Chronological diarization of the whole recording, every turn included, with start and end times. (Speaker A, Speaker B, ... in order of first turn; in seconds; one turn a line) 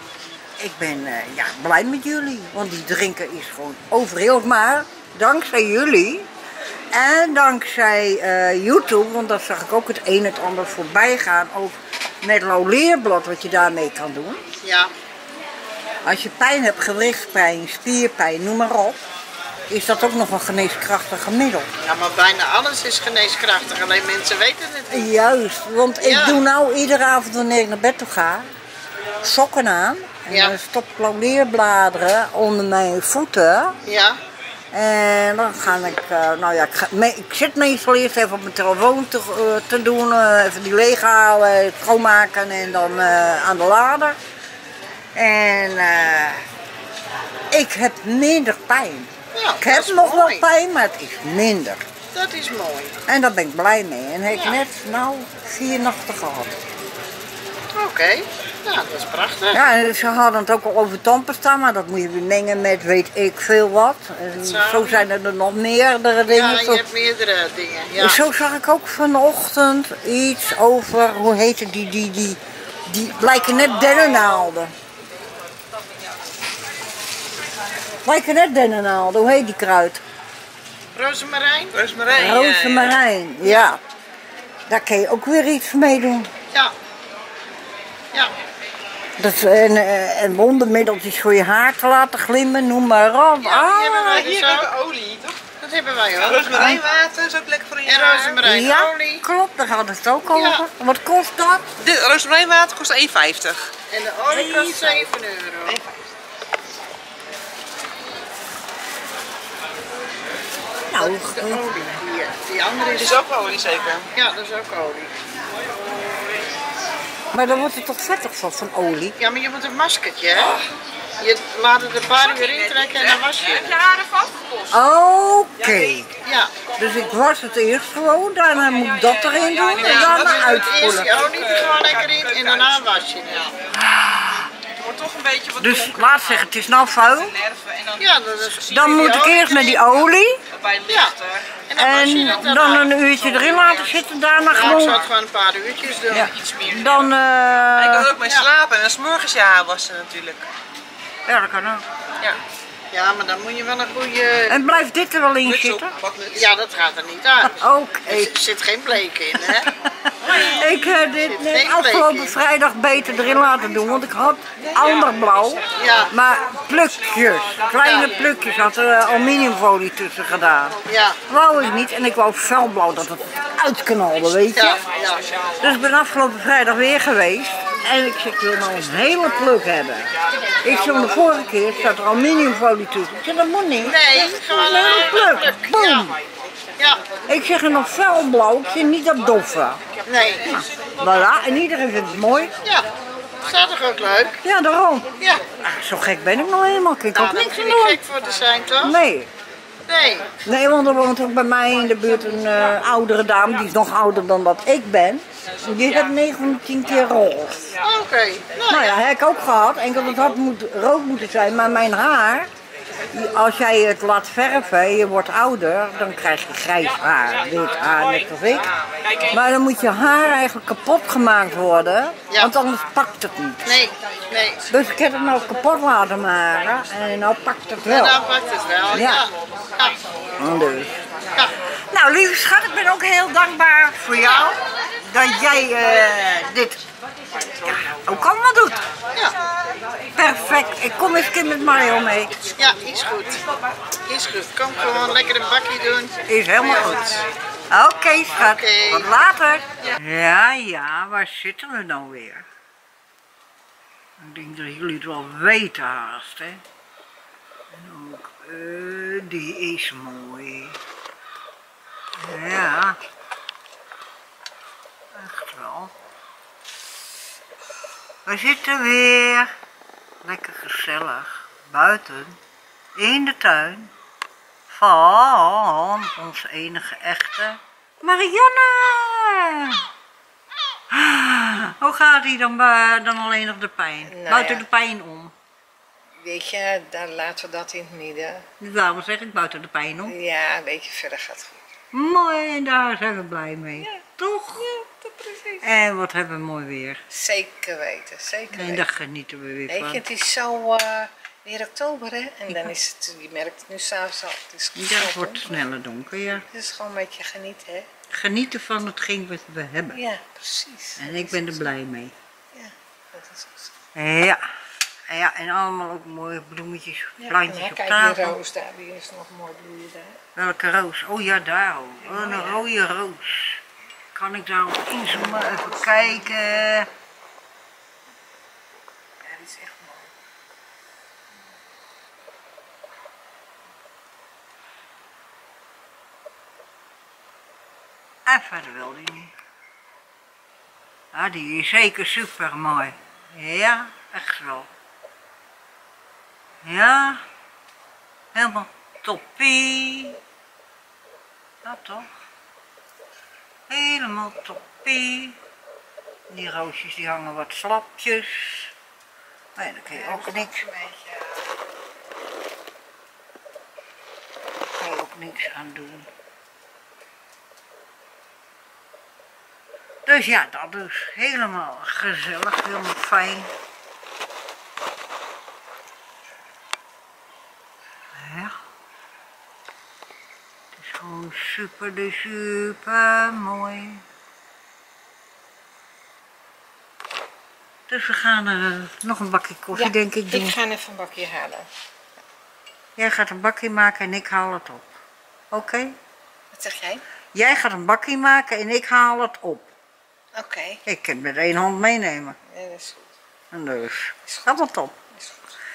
Speaker A: 0.6-6.3
Speaker A: 6.9-14.4
Speaker B: 14.6-14.9
Speaker A: 16.1-19.0
Speaker A: 19.7-21.7
Speaker B: 21.8-25.1
Speaker A: 24.9-28.5
Speaker B: 26.0-26.4
Speaker A: 29.2-33.8
Speaker B: 30.3-30.6
Speaker B: 33.9-34.2
Speaker A: 34.7-44.2
Speaker A: 45.1-46.4
Speaker A: 47.5-51.9
Speaker B: 49.4-50.5
Speaker B: 52.1-53.0
Speaker A: 53.1-56.6
Speaker B: 54.3-54.6
Speaker B: 57.8-59.6
Speaker A: 59.5-66.8
Speaker B: 64.4-65.1
Speaker B: 66.3-68.2
Speaker A: 68.0-74.7
Speaker A: 78.0-80.0
Speaker B: 80.9-81.7
Speaker C: 81.7-83.0
Speaker A: 82.1-83.8
Speaker B: 83.4-83.7
Speaker A: 84.7-86.3
Speaker A: 89.2-94.3
Speaker B: 93.4-94.7
Speaker C: 94.0-95.4
Speaker B: 95.6-96.5
Speaker C: 96.2-98.4
Speaker A: 96.5-96.8
Speaker B: 97.9-99.2
Speaker A: 98.4-101.7
Speaker B: 100.3-100.6
Speaker C: 101.8-103.7
Speaker B: 103.9-105.8
Speaker A: 104.3-105.1
Speaker C: 105.7-106.0
Speaker A: 110.9-111.9
Speaker B: 110.9-113.2
Speaker C: 112.9-114.1
Speaker B: 114.2-115.1
Speaker A: 117.3-119.2
Speaker B: 119.2-120.5
Speaker A: 120.4-120.7
Speaker B: 121.2-123.7
Speaker C: 122.2-124.8
Speaker A: 124.7-126.1
Speaker B: 126.2-126.5
Speaker A: 126.8-131.1
Speaker C: 128.6-132.8
Speaker B: 129.8-133.5
Speaker A: 133.7-134.5
Speaker C: 134.7-136.4
Speaker A: 135.6-137.4
Speaker C: 137.3-138.1
Speaker B: 138.0-140.1
Speaker A: 138.7-140.4
Speaker C: 140.5-141.4
Speaker B: 140.9-141.2
Speaker B: 141.7-142.9
Speaker A: 141.8-145.0
Speaker C: 143.2-143.9
Speaker B: 144.5-146.5
Speaker A: 146.1-148.1
Speaker C: 147.7-150.5
Speaker B: 148.2-148.5
Speaker A: 151.3-151.8
Speaker B: 152.9-154.6
Speaker A: 154.5-155.9
Speaker C: 155.4-156.5
Speaker B: 156.3-159.7
Speaker A: 157.5-158.3
Speaker A: 159.6-174.8
Speaker C: 160.2-160.8
Speaker B: 160.9-162.3
Speaker B: 165.8-166.1
Speaker B: 167.7-168.1
Speaker B: 170.9-171.2
Speaker B: 174.6-175.2
Speaker A: 175.6-186.2
Speaker B: 183.8-186.1
Speaker A: 187.2-189.9
Speaker B: 190.1-190.5
Speaker A: 190.4-192.5
Speaker B: 193.4-194.4
Speaker A: 194.4-198.0
Speaker B: 197.1-198.9
Speaker A: 198.8-199.3
Speaker B: 199.9-200.3
Speaker A: 200.4-207.8
Speaker B: 207.8-209.0
Speaker A: 208.7-212.5
Speaker A: 213.1-218.7
Speaker A: 219.3-223.8
Speaker B: 223.7-224.7
Speaker A: 224.7-228.2
Speaker B: 227.9-230.0
Speaker A: 228.9-229.2
Speaker A: 230.4-230.9
Speaker A: 231.9-236.8
Speaker B: 234.2-234.5
Speaker A: 237.6-238.8
Speaker A: 240.2-242.4
Speaker B: 242.6-243.4
Speaker B: 244.1-246.1
Speaker A: 246.3-252.5
Speaker B: 248.3-249.1
Speaker A: 254.2-256.6
Speaker A: 257.7-260.8
Speaker A: 262.2-263.0
Speaker A: 265.1-265.9
Speaker A: 268.2-269.5
Speaker A: 270.2-272.4
Speaker A: 272.9-273.9
Speaker A: 274.7-279.8
Speaker A: 280.9-285.3
Speaker D: 284.1-284.7
Speaker D: 286.2-288.5
Speaker A: 288.6-290.2
Speaker D: 290.1-291.7
Speaker A: 291.9-294.8
Speaker D: 294.7-295.7
Speaker A: 295.6-297.0
Speaker D: 297.1-298.9
Speaker A: 298.5-300.0
Speaker D: 299.7-305.6
Speaker A: 302.5-302.8
Speaker A: 304.8-306.4
Speaker D: 306.5-307.9
Speaker A: 308.1-310.0
Speaker D: 309.9-311.7
Speaker A: 311.0-312.1
Speaker D: 312.5-313.8
Speaker A: 313.9-314.4
Speaker A: 315.1-318.4
Speaker D: 317.2-320.2
Speaker A: 320.4-323.6
Speaker D: 322.0-322.6
Speaker A: 324.1-326.9
Speaker D: 325.1-326.7
Speaker D: 329.2-330.1
Speaker A: 338.2-339.3
Speaker A: 341.1-344.7
Speaker A: 346.6-347.2
Speaker A: 348.3-350.2
Speaker A: 351.6-352.1
Speaker A: 353.7-355.4
Speaker A: 356.3-358.7
Speaker A: 359.6-360.6
Speaker D: 359.9-361.4
Speaker A: 364.8-366.1
Speaker A: 370.1-373.5
Speaker A: 378.1-378.6
Speaker A: 380.8-384.0
Speaker A: 387.9-390.6
Speaker D: 389.8-391.7
Speaker A: 393.0-394.9
Speaker A: 395.5-395.9
Speaker D: 396.5-397.0
Speaker A: 397.3-399.7
Speaker D: 400.4-400.8
Speaker A: 400.9-402.4
Speaker D: 402.5-403.1
Speaker A: 403.5-404.9
Speaker D: 404.3-404.5
Speaker D: 405.1-405.4